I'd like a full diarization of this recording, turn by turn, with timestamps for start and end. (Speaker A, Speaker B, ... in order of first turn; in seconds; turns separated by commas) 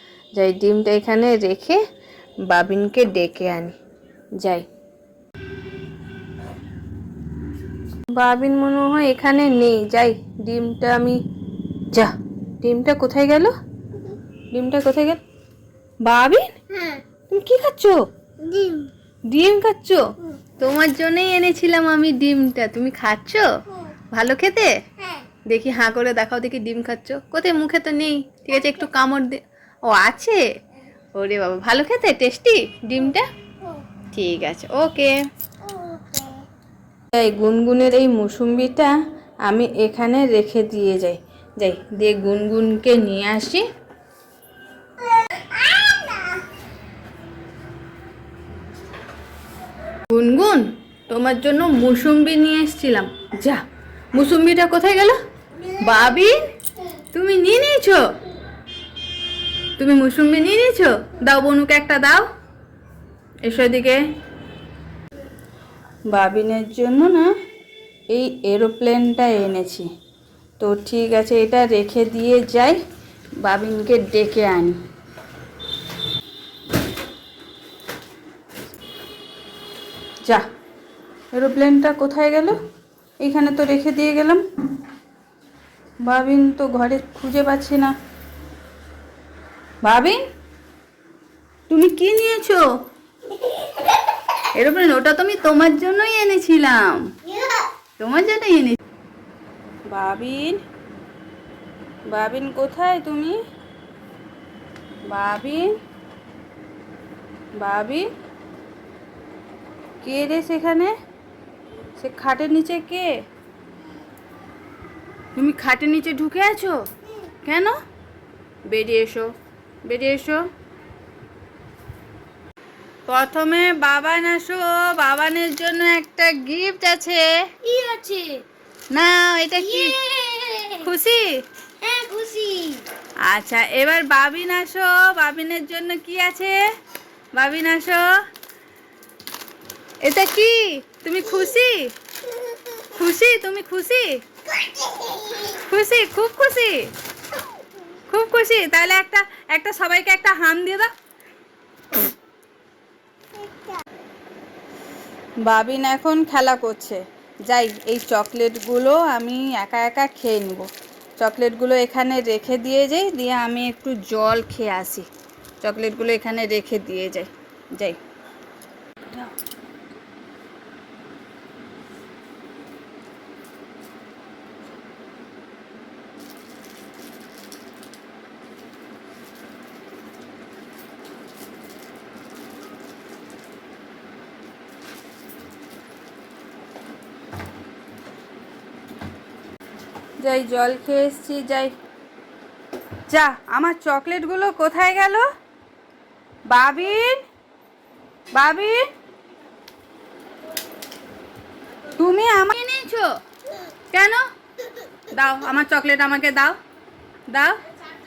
Speaker A: 0.3-1.8, Speaker A: 2.5-3.8, Speaker A: 8.2-11.2, Speaker A: 11.9-13.5, Speaker A: 14.5-15.2, Speaker A: 16.0-16.6, Speaker A: 17.3-18.0, Speaker B: 18.5-18.9, Speaker A: 19.3-20.1, Speaker A: 20.6-23.5, Speaker A: 24.1-24.7, Speaker A: 25.5-30.4, Speaker A: 31.1-33.2, Speaker A: 34.1-35.1, Speaker A: 37.1-38.9, Speaker A: 39.5-43.6, Speaker B: 45.8-46.1, Speaker A: 50.1-56.4, Speaker A: 57.1-58.0, Speaker A: 59.8-62.3, Speaker A: 63.5-64.0, Speaker A: 66.1-67.3, Speaker A: 68.1-69.9, Speaker A: 70.6-72.8, Speaker A: 73.4-74.8, Speaker A: 81.3-82.6, Speaker A: 83.2-84.4, Speaker A: 86.0-87.9, Speaker A: 89.8-90.2, Speaker A: 91.7-92.7, Speaker A: 94.5-97.1, Speaker A: 98.0-98.8, Speaker A: 99.9-100.6, Speaker A: 102.1-103.4, Speaker A: 105.1-105.7, Speaker A: 107.6-108.1, Speaker A: 110.0-110.9, Speaker A: 112.0-113.1, Speaker A: 115.3-116.8, Speaker A: 117.4-117.7, Speaker A: 118.7-119.3, Speaker A: 119.9-120.4, Speaker A: 123.1-127.7, Speaker B: 127.7-128.4, Speaker A: 128.9-131.3, Speaker B: 130.0-130.7, Speaker B: 131.8-132.8, Speaker A: 133.3-136.6, Speaker A: 137.4-138.1, Speaker A: 140.0-141.8, Speaker A: 142.9-144.1, Speaker A: 145.4-146.8, Speaker A: 148.1-150.9, Speaker A: 155.5-160.7, Speaker A: 161.2-165.1, Speaker A: 165.6-168.0, Speaker A: 190.2-191.7, Speaker A: 193.1-195.2, Speaker A: 196.5-197.2, Speaker A: 198.3-198.8, Speaker A: 202.0-203.1, Speaker A: 203.9-204.2, Speaker A: 205.2-206.6, Speaker A: 207.3-207.6